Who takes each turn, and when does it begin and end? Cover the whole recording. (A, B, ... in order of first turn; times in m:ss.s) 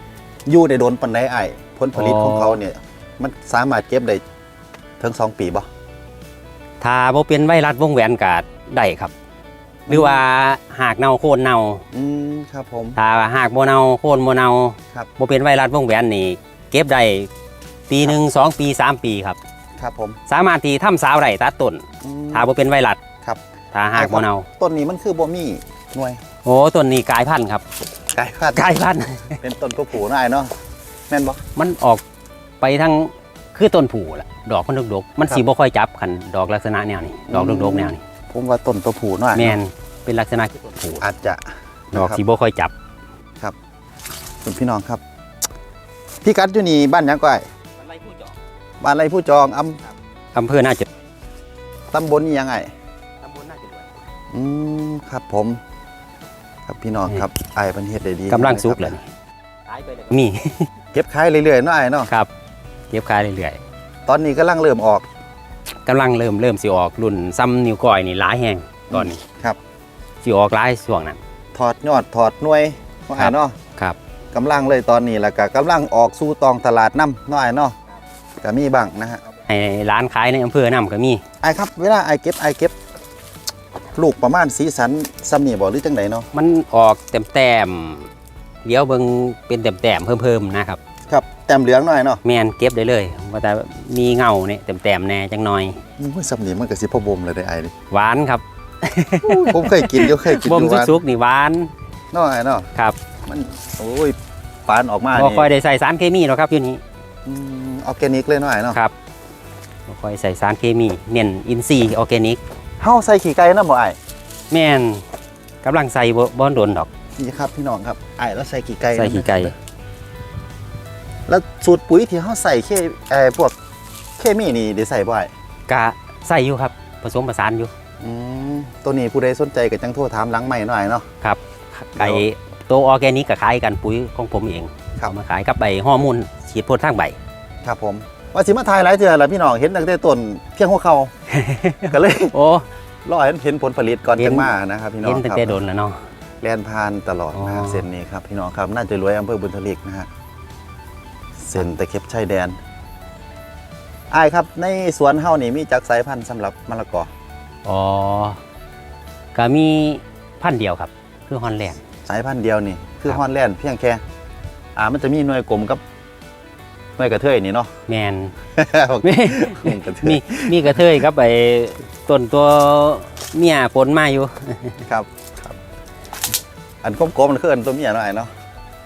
0:00.5-0:04.2 A
0:01.9-0:02.6 B
0:05.0-0:05.7 A
0:06.8-0:09.1 B
0:09.9-0:10.2 A
0:09.9-0:11.8 B
0:11.9-0:13.0 A
0:13.0-0:17.3 B
0:17.9-0:19.4 B
0:19.8-0:20.2 A
0:20.3-0:23.0 B
0:22.0-0:22.5 A
0:23.7-0:24.5 B
0:24.0-0:26.2 A
0:26.4-0:27.6 B
0:28.1-0:28.7 A
0:28.6-0:29.4 B
0:29.4-0:30.5 A
0:31.1-0:31.4 A
0:31.6-0:32.0 B
0:32.6-0:38.0 B
0:37.3-0:39.6 A
0:39.4-0:41.0 B
0:41.0-0:41.4 A
0:41.9-0:42.2 A
0:41.9-0:42.7 B
0:44.4-0:45.0 A
0:46.2-0:47.5 A
0:47.9-0:48.3 B
0:48.8-0:49.8 A
0:50.4-0:50.9 B
0:51.9-0:52.7 A
0:53.2-0:53.9 B
0:54.3-0:55.6 A
0:56.7-0:59.0 A
0:58.3-0:59.0 B
0:59.7-1:00.7 B
1:00.9-1:02.1 A
1:02.9-1:03.6 B
1:04.1-1:05.0 A
1:05.9-1:09.2 B
1:08.9-1:09.6 A
1:10.2-1:11.2 B
1:11.6-1:13.6 A
1:13.2-1:14.0 B
1:14.3-1:17.8 A
1:18.4-1:19.2 A
1:19.5-1:21.2 B
1:21.4-1:22.7 A
1:24.0-1:26.3 A
1:26.3-1:28.1 B
1:28.6-1:30.8 B
1:31.1-1:32.2 A
1:32.2-1:35.8 B
1:36.0-1:37.7 A
1:37.9-1:41.7 B
1:39.2-1:41.0 A
1:42.1-1:42.7 A
1:43.3-1:45.5 A
1:45.1-1:46.8 B
1:47.3-1:48.8 A
1:49.9-1:52.4 B
1:52.8-1:54.0 A
1:54.5-1:55.0 B
1:55.6-1:56.9 B
1:57.2-1:59.5 A
1:59.0-1:59.5 B
2:01.3-2:03.6 A
2:04.2-2:05.3 A
2:05.7-2:07.7 B
2:08.0-2:11.1 A
2:11.2-2:17.2 B
2:12.0-2:12.3 A
2:17.6-2:21.1 A
2:21.3-2:22.7 B
2:21.9-2:22.4 A
2:23.0-2:25.6 A
2:24.2-2:24.5 B
2:25.0-2:26.0 B
2:26.4-2:30.1 A
2:27.3-2:27.8 B
2:31.4-2:32.6 A
2:34.1-2:37.1 A
2:37.6-2:38.4 B
2:39.4-2:41.8 B
2:42.1-2:44.0 A
2:44.8-2:45.8 A
2:47.0-2:47.7 A
2:47.9-2:48.3 B
2:48.6-2:50.8 A
2:49.0-2:54.8 B
2:54.9-2:55.6 A
2:56.8-2:58.3 A